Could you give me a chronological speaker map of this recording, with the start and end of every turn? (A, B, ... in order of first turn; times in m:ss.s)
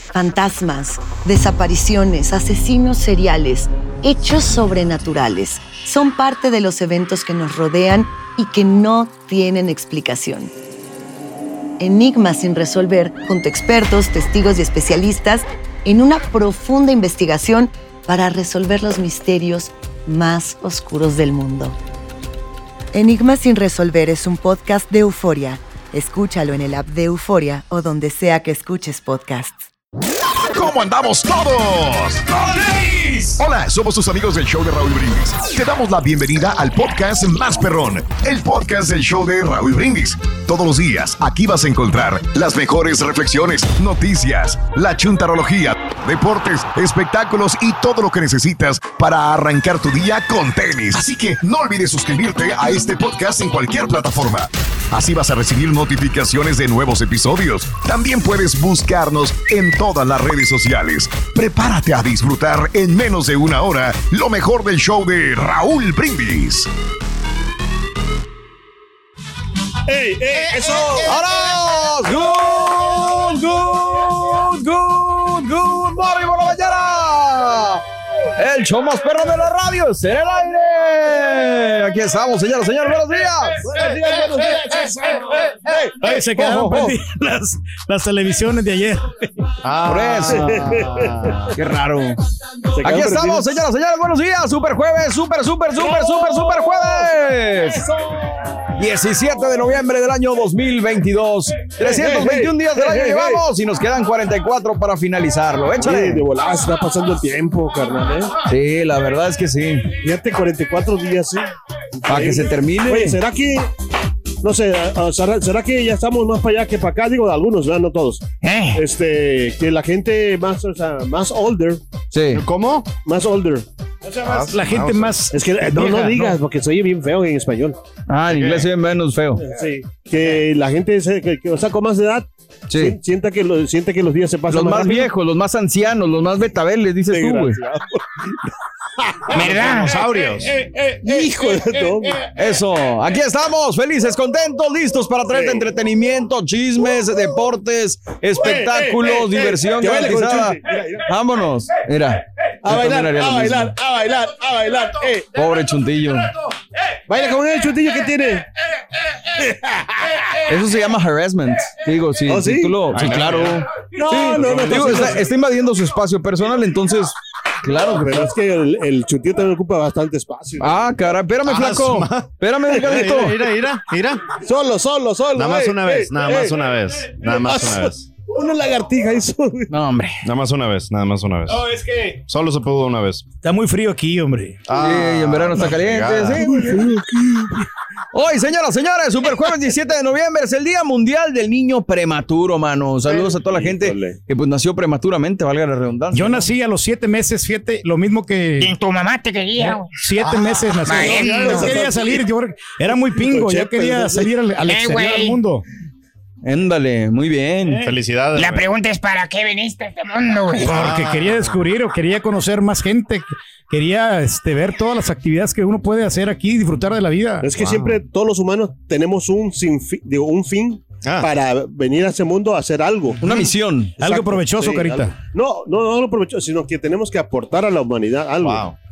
0:00.1-0:10.5 A
0:11.8-0:21.8 A
0:22.9-0:29.6 A
0:30.5-0:32.3 B
0:33.4-1:06.7 B
1:09.9-1:11.2 C
1:10.9-1:17.8 D
1:18.4-1:23.6 D
1:23.7-1:26.9 C
1:26.0-1:29.0 E
1:29.6-1:31.5 F
1:29.8-1:30.5 D
1:30.3-1:31.1 C
1:31.6-1:32.2 D
1:32.7-1:33.6 C
1:32.8-1:37.8 D
1:38.8-1:46.2 D
1:41.8-1:43.4 C
1:45.8-1:48.3 C
1:48.5-1:49.9 D
1:50.0-1:51.5 C
1:52.0-1:53.7 C
1:52.1-1:53.2 D
1:54.4-1:58.2 C
1:58.4-1:58.8 G
1:58.7-2:01.8 C
2:02.1-2:02.4 D
2:02.3-2:02.9 F
2:03.0-2:03.6 C
2:04.2-2:06.4 E
2:04.2-2:05.2 F
2:05.3-2:07.8 C
2:08.1-2:09.4 D
2:08.3-2:08.7 F
2:09.4-2:15.1 C
2:12.7-2:13.0 D
2:14.5-2:17.6 D
2:17.1-2:18.0 C
2:19.3-2:20.5 F
2:19.3-2:19.9 G
2:21.0-2:22.2 C
2:22.3-2:33.7 D
2:25.3-2:25.6 C
2:28.4-2:31.0 C
2:32.6-2:35.3 C
2:35.3-2:36.3 D
2:37.1-2:38.4 C
2:39.4-2:39.9 C
2:40.5-2:48.3 D
2:42.2-2:42.8 C
2:42.9-2:43.6 F
2:44.0-2:45.3 C
2:47.8-2:50.8 C
2:50.6-2:53.4 D
2:51.4-2:54.2 F
2:52.8-2:53.1 C
2:54.4-2:56.5 C
2:55.3-2:58.1 F
2:57.3-2:59.7 C
2:59.7-3:00.2 D
3:00.2-3:01.6 F
3:01.5-3:02.2 E
3:02.3-3:03.2 F
3:03.4-3:04.6 E
3:04.7-3:06.4 F
3:04.7-3:06.8 D
3:06.4-3:07.5 C
3:08.1-3:16.5 D
3:13.1-3:14.2 C
3:16.1-3:18.7 E
3:18.6-3:19.9 G
3:19.7-3:25.6 E
3:20.8-3:21.7 G
3:20.9-3:22.2 C
3:23.2-3:24.3 C
3:24.6-3:25.4 G
3:26.4-3:27.8 D
3:27.8-3:28.7 F
3:28.4-3:30.7 G
3:30.6-3:37.5 E
3:30.7-3:31.5 F
3:37.4-3:43.2 C
3:37.6-3:38.0 F
3:41.0-3:41.3 F
3:43.2-3:43.9 D
3:44.0-3:48.7 C
3:44.0-3:45.1 E
3:48.4-3:48.7 F